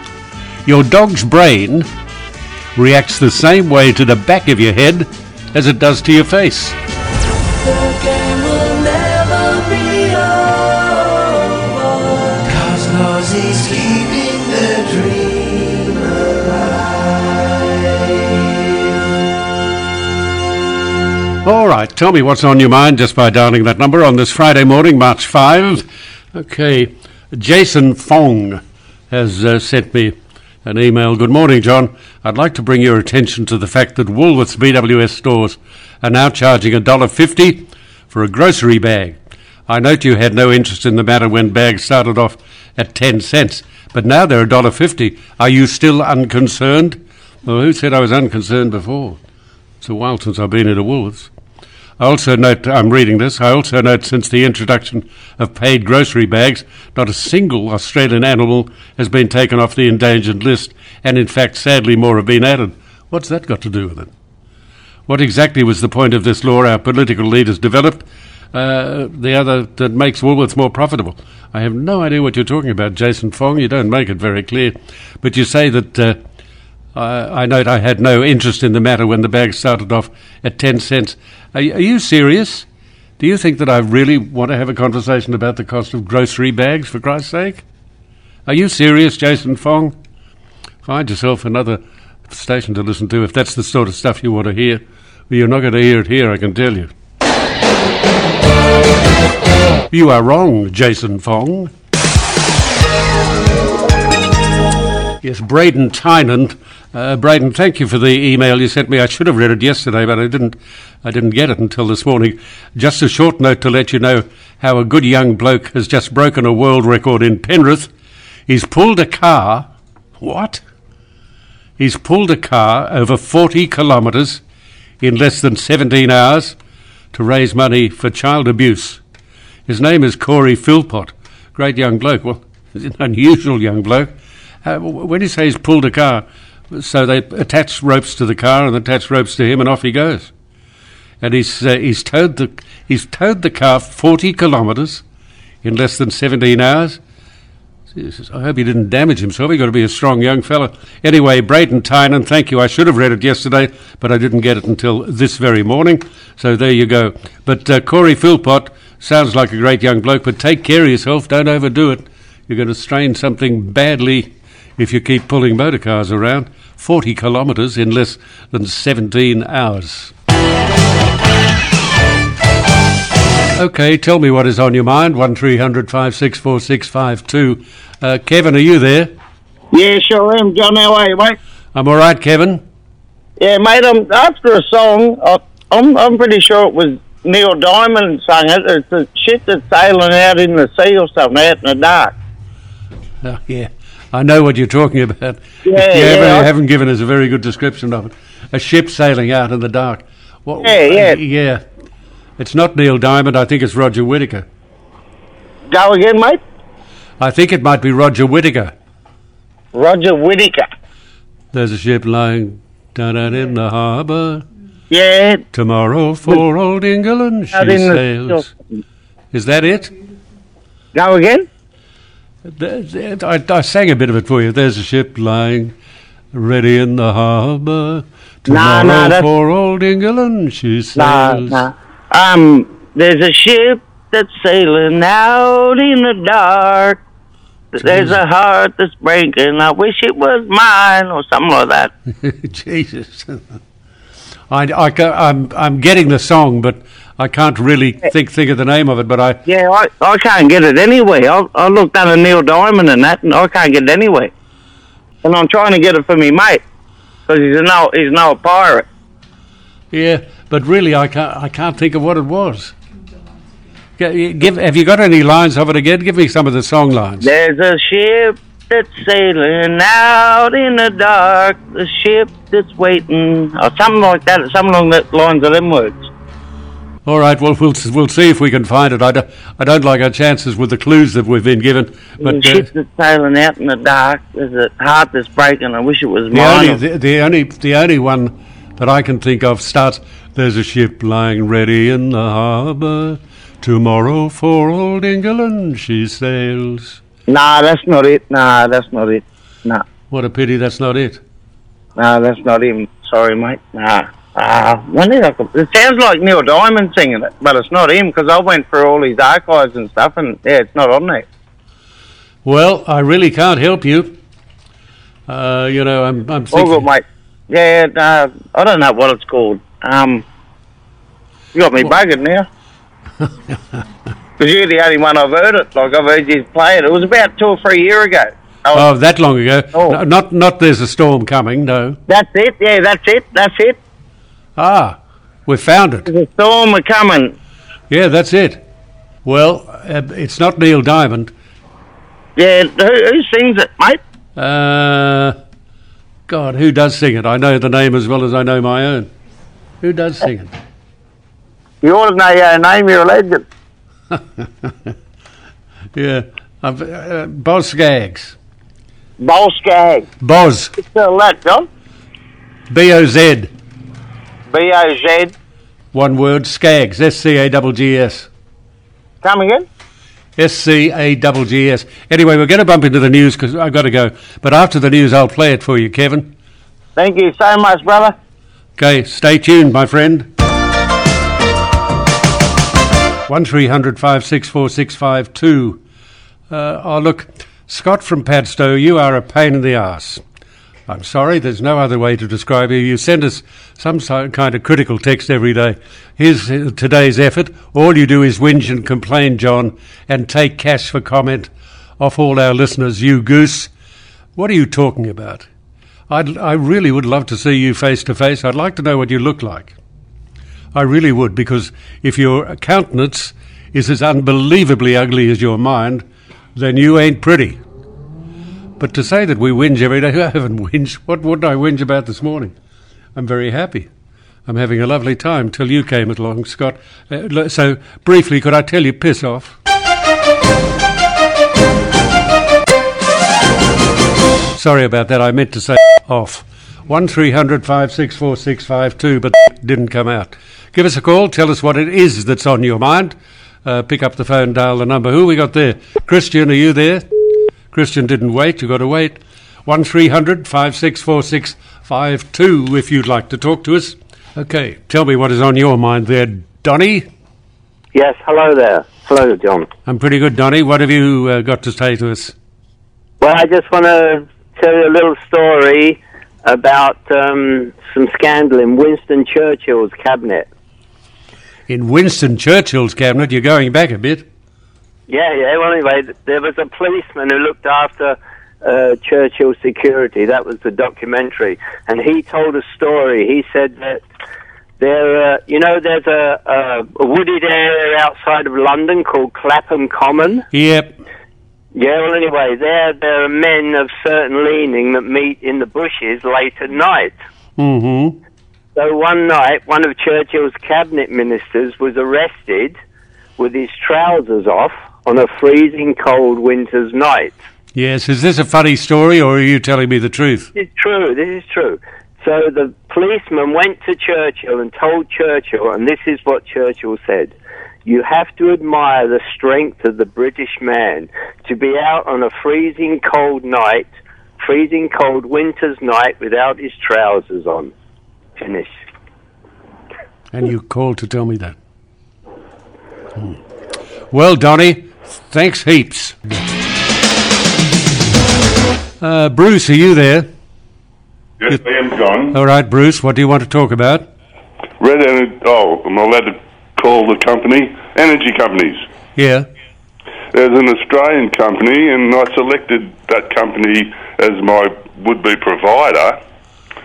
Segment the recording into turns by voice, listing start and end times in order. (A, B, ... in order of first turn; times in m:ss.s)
0:00.6-0:01.9 A
0:02.7-0:06.8 A
0:07.8-0:11.8 B
0:12.4-0:16.3 B
0:21.4-0:39.2 A
0:39.7-0:49.2 A
0:49.8-0:51.3 A
0:52.0-1:04.1 A
1:05.1-1:16.2 A
1:16.9-1:22.7 A
1:23.2-1:27.6 A
1:28.5-1:29.9 A
1:30.8-1:36.9 A
1:39.9-1:41.7 A
1:45.2-1:57.9 A
1:58.5-1:59.7 A
2:00.2-2:00.6 A
2:01.8-2:04.4 A
2:05.0-2:06.6 A
2:07.1-2:09.0 A
2:09.7-2:14.1 A
2:14.6-2:20.3 A
2:21.2-2:25.0 A
2:25.6-2:27.0 A
2:27.9-2:50.1 A
2:53.6-2:59.1 A
2:59.7-3:01.4 C
3:01.8-3:02.6 A
3:03.4-3:12.1 C
3:13.2-3:21.6 A
3:15.7-3:16.5 C
3:20.6-3:21.2 C
3:22.4-3:24.5 A
3:25.7-3:26.4 C
3:27.2-3:28.7 A
3:29.7-3:30.7 C
3:31.5-3:34.4 A
3:34.9-3:35.4 C
3:35.5-3:38.5 A
3:37.5-3:38.4 C
3:39.3-3:39.9 A
3:40.9-3:41.5 C
3:42.5-3:45.7 A
3:46.3-3:51.7 A
3:48.5-3:49.2 C
3:51.0-3:57.0 C
3:57.7-4:01.9 C
3:57.8-3:58.2 A
4:02.2-4:03.4 A
4:04.5-4:09.4 A
4:09.5-4:14.3 C
4:15.2-4:16.6 C
4:17.3-4:18.8 C
4:19.9-4:22.8 A
4:24.0-4:27.3 A
4:27.2-4:36.1 C
4:37.0-4:42.7 A
4:42.2-4:46.8 C
4:46.3-4:57.0 A
4:57.3-4:59.8 C
5:00.1-5:01.2 A
5:02.0-5:11.2 C
5:12.4-5:14.1 A
5:15.3-5:16.8 A
5:16.5-5:20.2 C
5:21.5-5:22.5 C
5:24.4-5:28.9 C
5:28.7-5:32.0 A
5:32.1-5:33.8 C
5:34.6-5:36.1 A
5:36.1-5:37.3 C
5:37.9-5:38.6 A
5:39.2-5:41.3 A
5:42.4-5:44.0 C
5:44.4-5:45.4 A
5:46.3-5:49.1 A
5:49.8-5:50.5 A
5:51.8-5:53.4 C
5:54.1-5:54.7 A
5:55.9-5:58.4 A
5:59.2-6:00.0 C
6:00.2-6:00.7 A
6:00.8-6:01.7 C
6:02.7-6:03.5 A
6:04.5-6:05.3 C
6:05.9-6:08.3 A
6:09.2-6:09.6 C
6:10.4-6:16.3 A
6:17.0-6:18.1 C
6:18.8-6:20.3 A
6:23.3-6:25.8 A
6:26.5-6:30.2 A
6:30.9-6:43.7 A
6:44.4-6:45.5 A
6:46.1-6:49.8 A
6:50.8-6:56.0 A
6:56.6-6:57.6 A
6:58.8-7:02.5 A
7:03.1-7:03.9 A
7:04.5-7:09.6 A
7:14.5-7:27.1 A
7:27.7-7:37.0 A
7:37.9-7:39.7 D
7:39.8-7:42.3 A
7:43.2-7:50.5 D
7:51.7-7:54.2 A
7:55.1-8:04.0 D
8:04.8-8:10.4 D
8:10.5-8:10.9 A
8:11.8-8:17.1 D
8:17.6-8:18.2 A
8:18.8-8:22.8 D
8:23.4-8:27.4 D
8:27.8-8:30.5 A
8:30.6-8:37.3 D
8:37.9-8:47.7 D
8:48.4-8:48.7 D
8:50.3-8:51.5 A
8:54.1-8:56.4 A
8:59.0-9:00.3 A
9:01.4-9:02.3 E
9:02.3-9:04.1 A
9:04.8-9:08.8 E
9:09.2-9:09.5 A
9:10.3-9:16.2 E